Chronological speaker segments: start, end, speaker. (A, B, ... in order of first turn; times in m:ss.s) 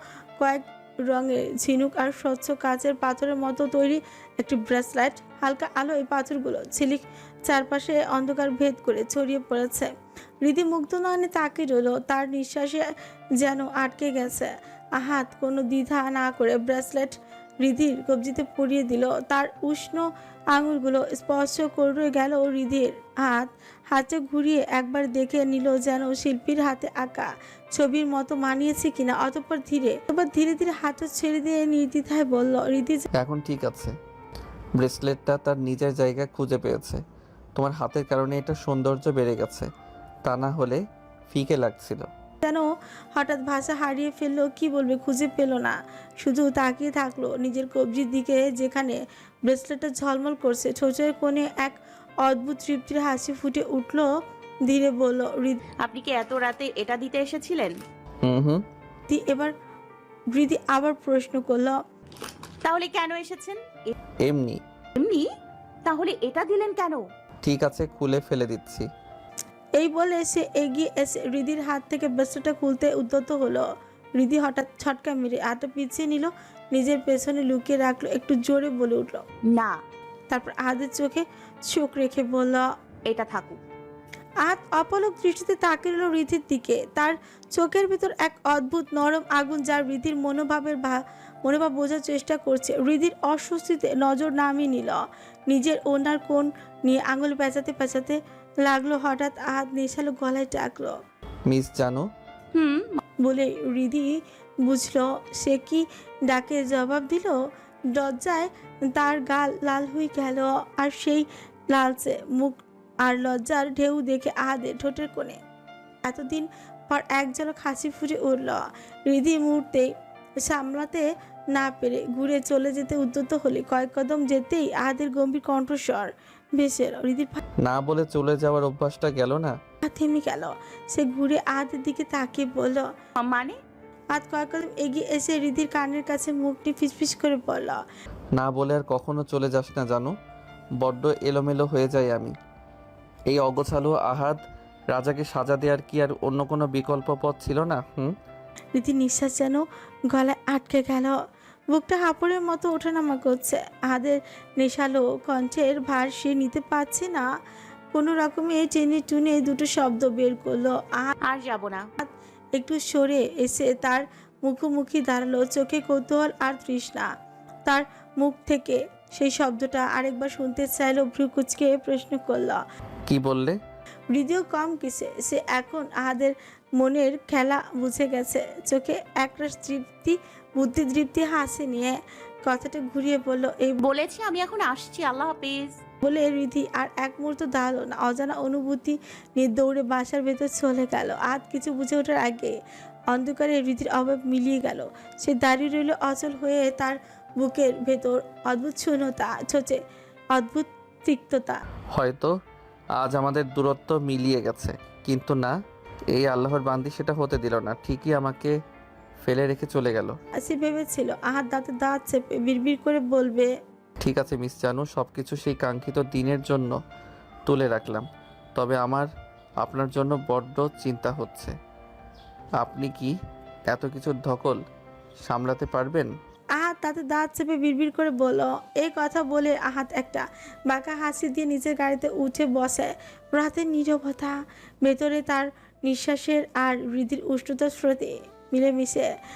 0:00.4-0:33.1 A
0:33.1-0:34.0 B
0:34.8-0:37.0 B
0:37.6-0:39.7 B
0:40.2-0:42.1 B
0:42.4-0:54.1 A
0:54.7-0:55.6 A
0:55.8-0:57.8 C
0:58.2-0:58.6 B
0:59.1-0:59.5 A
1:00.3-1:01.8 A
1:02.6-1:04.0 C
1:04.2-1:04.6 B
1:05.0-1:05.3 C
1:05.8-1:07.0 C
1:07.4-1:08.9 B
1:09.8-1:19.2 A
1:19.5-1:19.8 C
1:20.3-1:22.7 A
1:23.1-1:23.6 C
1:24.4-1:41.0 A
1:41.5-1:42.1 B
1:42.6-1:43.0 C
1:43.2-1:47.4 A
1:47.9-1:55.4 A
1:56.0-1:59.9 A
2:00.4-2:07.4 A
2:07.6-2:09.6 B
2:09.8-2:12.9 A
2:13.2-2:13.6 C
2:14.1-2:17.8 A
2:18.3-2:20.2 B
2:20.8-2:22.4 B
2:23.3-2:28.2 B
2:28.8-2:31.2 A
2:31.7-2:37.3 A
2:37.9-2:41.2 A
2:41.2-2:41.9 C
2:42.0-2:47.1 A
2:47.7-2:52.6 A
2:53.1-2:53.6 B
2:54.1-3:03.8 A
3:03.8-3:05.8 C
3:06.0-3:12.6 A
3:13.1-3:19.8 A
3:20.3-3:21.6 A
3:21.9-3:22.4 B
3:23.0-3:25.6 B
3:26.1-3:28.6 B
3:29.2-3:30.2 B
3:30.4-3:33.6 A
3:34.0-3:36.8 B
3:37.5-3:39.1 B
3:39.6-3:41.6 B
3:42.6-3:43.2 B
3:43.7-3:44.6 B
3:45.2-3:46.1 B
3:46.6-3:59.1 A